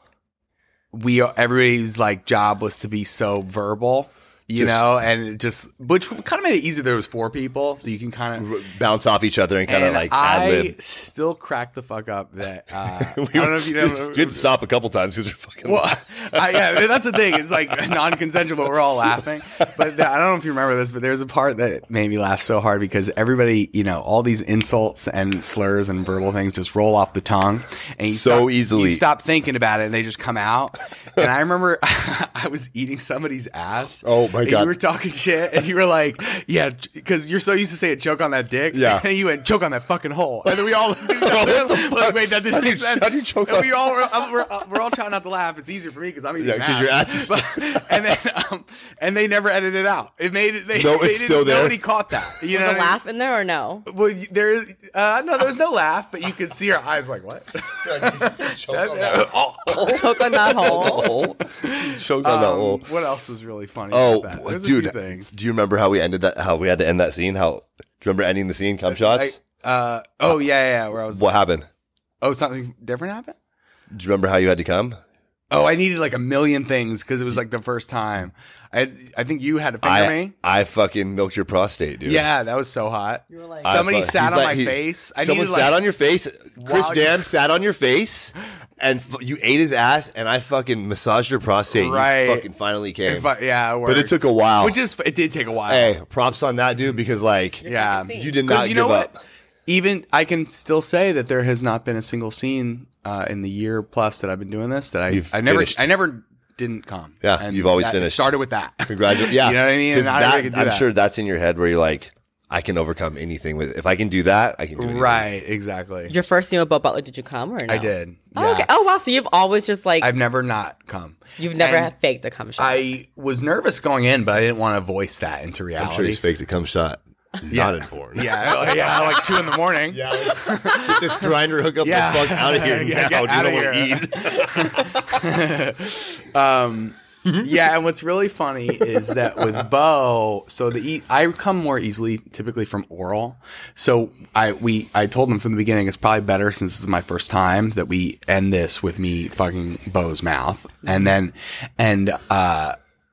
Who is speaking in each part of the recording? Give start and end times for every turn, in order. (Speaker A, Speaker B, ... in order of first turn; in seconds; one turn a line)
Speaker A: 0.9-8.6
Speaker B: 4.5-4.9
Speaker B: 8.4-10.8
Speaker A: 9.7-14.5
Speaker B: 12.8-16.9
Speaker A: 15.6-53.0
Speaker B: 28.0-29.0
Speaker B: 34.0-34.7
Speaker B: 38.7-39.0
Speaker B: 40.4-44.3
Speaker B: 46.4-47.6
Speaker B: 50.7-51.8
Speaker C: 52.5-53.9
Speaker A: 53.9-65.3
Speaker B: 57.8-62.9
Speaker C: 59.8-61.1
Speaker B: 63.9-69.4
Speaker A: 68.9-71.3
Speaker B: 71.1-71.7
Speaker A: 72.2-73.3
Speaker B: 73.9-75.0
Speaker A: 75.5-80.3
Speaker B: 79.8-82.2
Speaker A: 82.0-85.8
Speaker C: 83.3-83.8
Speaker B: 83.6-93.3
Speaker A: 86.6-87.2
Speaker A: 91.7-92.5
Speaker A: 93.0-95.9
Speaker B: 93.8-94.8
Speaker B: 95.7-99.2
Speaker C: 97.6-98.4
Speaker A: 97.6-99.1
Speaker A: 99.7-110.9
Speaker B: 105.1-106.0
Speaker B: 107.2-108.3
Speaker B: 108.8-115.3
Speaker A: 114.8-116.1
Speaker C: 116.1-120.1
Speaker A: 117.7-118.7
Speaker A: 120.0-121.9
Speaker C: 121.4-122.9
Speaker A: 122.6-126.2
Speaker B: 125.8-128.9
Speaker A: 127.5-152.8
Speaker B: 129.9-135.2